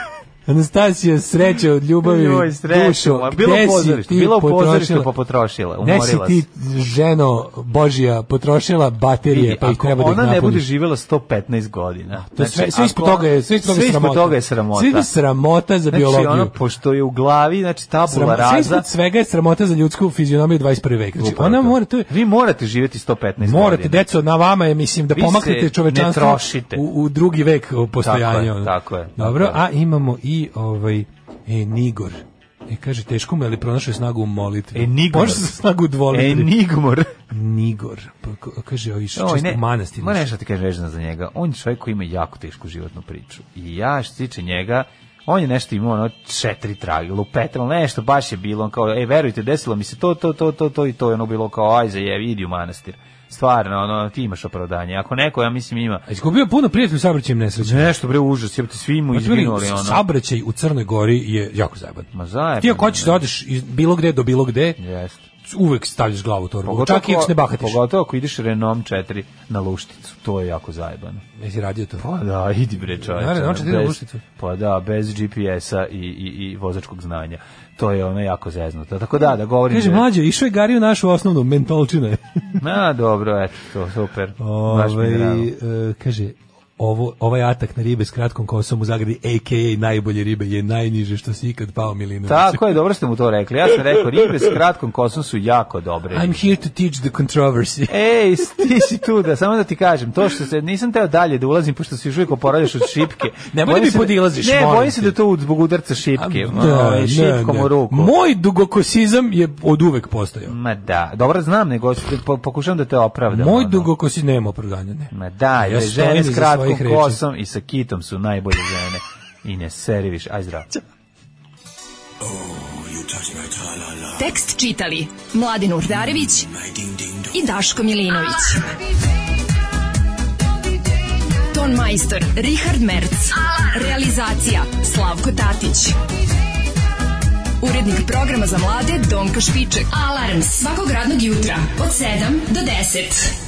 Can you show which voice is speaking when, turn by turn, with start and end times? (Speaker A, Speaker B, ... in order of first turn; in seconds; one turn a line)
Speaker A: 0.5-5.1
Speaker B: 2.0-6.4
Speaker A: 5.8-10.6
Speaker B: 9.3-15.1
Speaker A: 12.3-16.5
Speaker B: 15.9-18.9
Speaker A: 18.1-22.1
Speaker B: 21.2-24.1
Speaker A: 23.4-36.5
Speaker B: 25.1-26.8
Speaker B: 28.0-29.6
Speaker B: 34.7-35.5
Speaker B: 36.1-37.1
Speaker A: 37.3-40.3
Speaker B: 39.1-56.0
Speaker A: 56.1-57.9
Speaker B: 57.6-60.0
Speaker A: 59.1-64.8
Speaker B: 62.1-63.2
Speaker B: 64.8-65.2
Speaker A: 65.4-67.8
Speaker B: 66.6-71.2
Speaker A: 71.4-72.0
Speaker B: 72.0-80.1
Speaker A: 73.1-74.2
Speaker A: 79.7-82.6
Speaker B: 82.6-85.5
Speaker A: 84.4-92.6
Speaker B: 92.2-96.5
Speaker A: 96.1-98.0
Speaker B: 97.9-108.1
Speaker A: 103.5-105.2
Speaker A: 106.2-110.5
Speaker B: 110.5-113.9
Speaker A: 113.3-117.2
Speaker B: 115.1-120.8
Speaker C: 124.2-126.5
Speaker C: 127.3-128.7
Speaker C: 131.5-136.0
Speaker C: 137.6-143.3